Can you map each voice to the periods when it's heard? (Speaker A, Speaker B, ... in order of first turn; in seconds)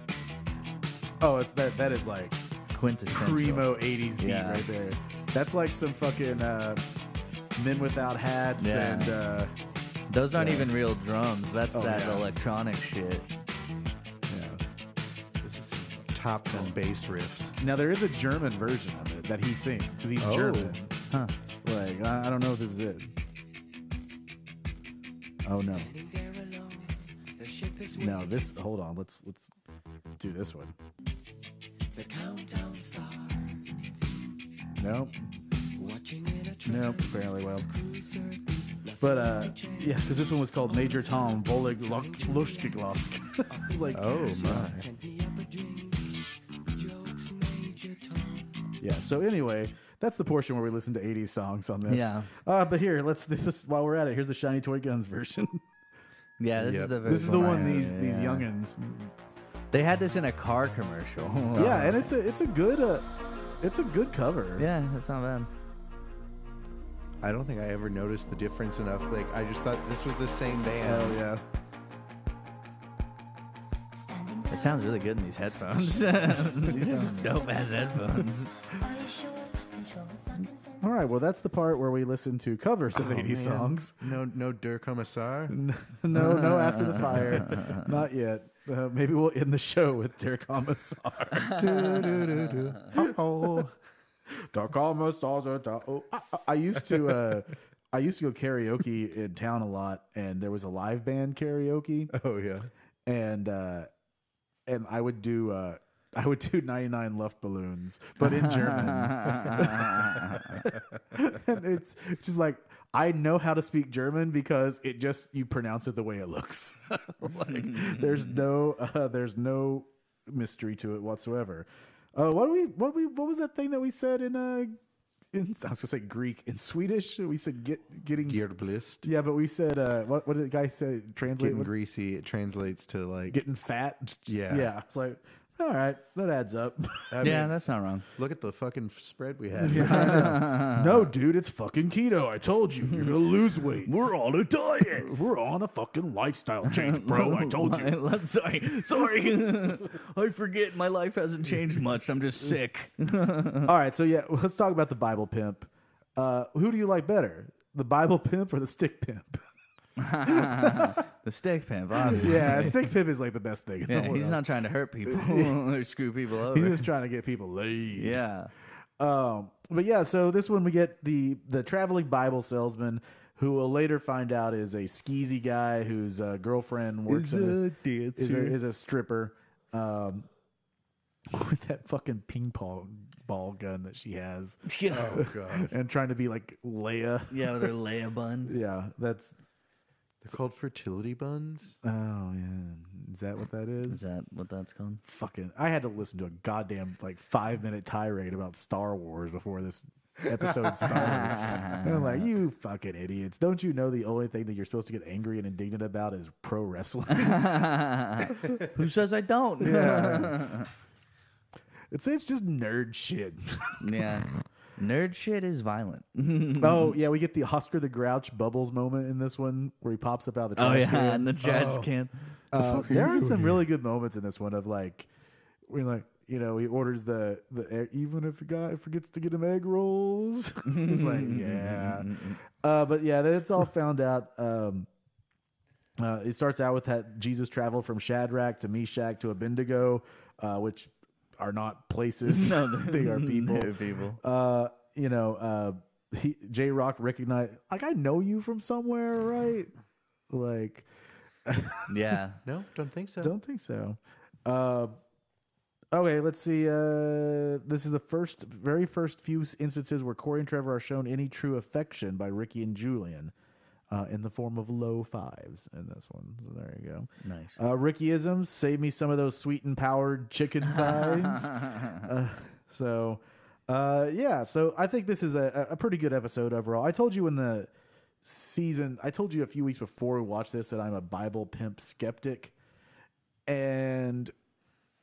Speaker A: 1.2-2.4, 3.1-6.8, 7.6-9.5, 10.3-10.7, 11.7-12.3, 14.3-14.6, 17.6-20.9, 21.6-23.1, 25.4-25.9, 27.9-29.5, 30.2-30.8, 34.8-35.2, 36.6-37.7, 39.0-44.8, 48.8-55.6, 57.0-59.1, 61.5-63.1, 63.6-64.7, 70.8-71.4, 80.8-84.0, 85.5-92.0, 92.9-93.7, 94.4-102.1, 103.1-103.9, 104.7-124.8, 125.3-128.4, 129.0-131.7, 133.3-137.1, 139.6-143.9, 145.0-148.0, 153.6-159.4, 160.2-161.0, 162.0-164.4, 165.1-165.7, 166.5-168.2, 169.0-177.6, 178.2-180.3, 181.3-187.7, 188.5-189.3, 191.8-194.1, 195.1-207.5, 209.6-210.5, 211.9-213.8, 216.6-221.3, 222.5-225.1, 225.7-234.9, 236.0-249.7, 250.3-250.9, 251.5-251.9, 253.2-255.0, 255.9-263.3, 263.9-277.7, 278.2-282.6, 283.5-284.3
Speaker B: 2.7-4.7, 8.6-9.2, 10.1-13.3, 51.9-52.3, 56.4-58.5, 59.7-62.0, 64.6-65.5, 74.5-78.5, 86.1-87.8, 91.4-92.6, 108.2-110.6, 117.5-118.3, 137.2-138.1, 139.7-141.1, 142.9-143.2, 143.8-145.1, 146.7-153.7, 160.0-162.9, 163.9-166.9, 167.9-168.5, 184.7-185.2, 187.3-188.6, 193.9-195.0, 200.9-202.3, 207.1-210.7, 213.8-217.0, 220.6-222.1, 230.7-232.4, 242.2-244.2, 251.9-252.4, 267.2-267.6, 270.7-272.0
Speaker C: 15.4-17.6, 20.2-20.8, 43.9-44.9, 56.5-57.8, 67.2-71.2, 82.9-85.6, 91.5-93.7, 96.8-97.4, 102.1-102.7, 128.3-129.1, 131.4-133.4, 134.3-134.7, 137.1-137.6, 138.2-140.4, 177.1-178.6, 184.9-185.7, 190.2-191.8, 200.4-200.7, 221.4-221.9, 222.5-223.7, 252.4-253.3
Speaker D: 25.5-28.6, 31.9-34.2, 35.6-48.7
Speaker E: 73.9-81.2